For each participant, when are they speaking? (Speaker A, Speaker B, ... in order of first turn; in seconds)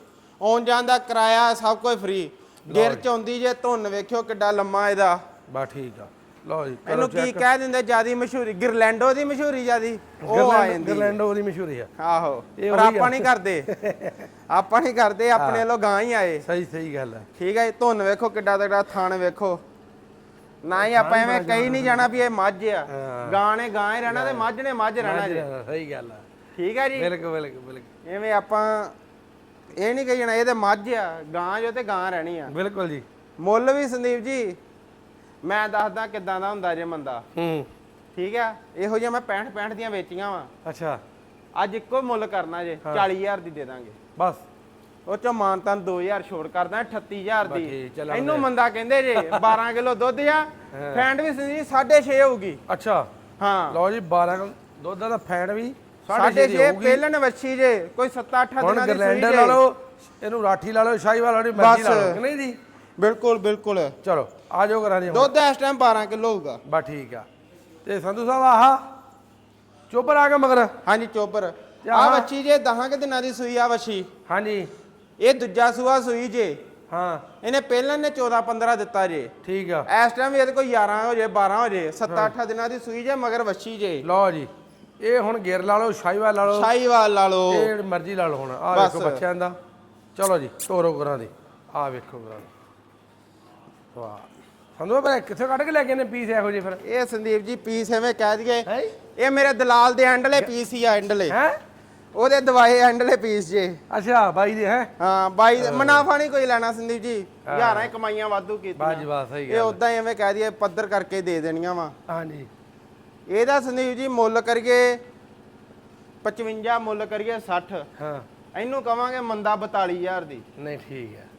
Speaker A: 0.4-5.2, 6.9-11.2, 12.0-13.7, 14.5-16.4, 17.4-19.6, 20.6-25.5, 26.6-27.1, 28.1-28.9, 29.8-32.5, 33.4-34.6, 35.4-37.2, 38.1-40.5, 41.6-44.0, 45.1-52.6, 53.4-53.8, 56.1-59.6, 61.5-62.2, 63.0-64.0, 65.1-66.6, 70.8-74.1, 75.2-76.6, 77.4-79.3, 79.9-84.0, 86.5-87.7, 88.7-89.2, 96.8-101.4, 102.1-103.8, 105.0-111.9, 113.3-115.0, 116.2-117.8, 118.5-120.4
Speaker B: 2.7-3.0, 5.5-7.5, 10.2-11.9, 12.6-14.3, 15.4-15.6, 16.4-17.3, 20.8-22.1, 22.9-23.4, 24.1-24.5, 25.0-26.2, 27.0-27.9, 32.5-33.0, 37.4-37.7, 40.6-41.0, 44.2-44.4, 47.5-48.5, 49.3-49.5, 50.7-51.1, 52.7-53.1, 53.7-57.0, 58.6-62.6, 64.0-65.3, 66.7-67.3, 67.8-68.8, 69.9-70.7, 71.8-72.3, 74.3-74.7, 76.9-77.3, 79.4-79.9, 84.0-84.5, 85.0-86.7, 87.5-89.6, 90.2-92.5, 93.9-96.8, 98.7-99.0, 101.3-101.6, 103.9-104.9, 105.6-106.1, 107.5-107.9, 108.8-109.8, 112.1-112.5, 118.0-118.3, 120.6-121.3